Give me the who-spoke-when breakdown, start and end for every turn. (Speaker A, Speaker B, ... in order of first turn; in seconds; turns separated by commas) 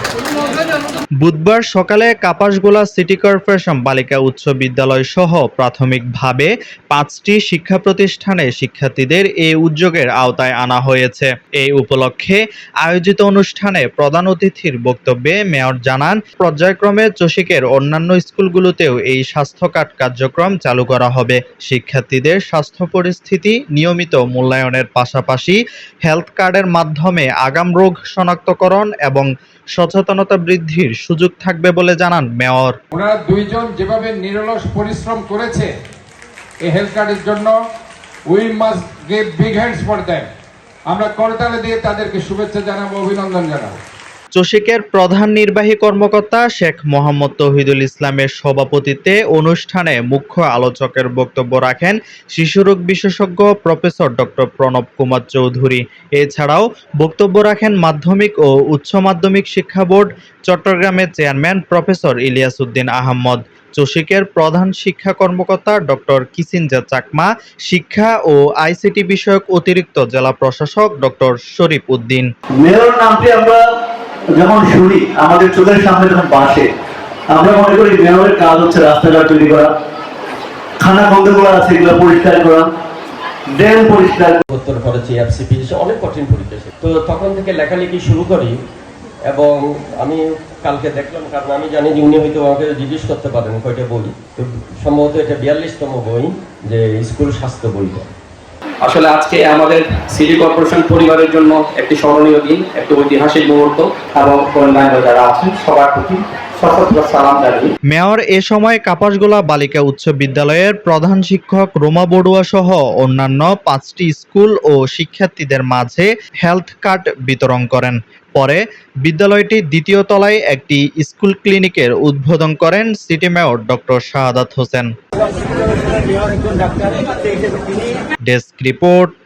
Speaker A: 1.2-32.8, Speaker B: 32.9-35.7, Speaker B: 36.6-37.6, Speaker B: 38.3-40.3, Speaker B: 40.9-43.8, Speaker A: 44.4-72.3, Speaker C: 72.6-73.6, Speaker C: 74.4-76.7, Speaker C: 77.3-79.7, Speaker C: 80.8-82.7, Speaker C: 83.5-84.4, Speaker D: 84.5-88.6, Speaker D: 89.3-98.1, Speaker E: 98.8-107.7, Speaker A: 107.9-124.9, Speaker A: 128.3-129.1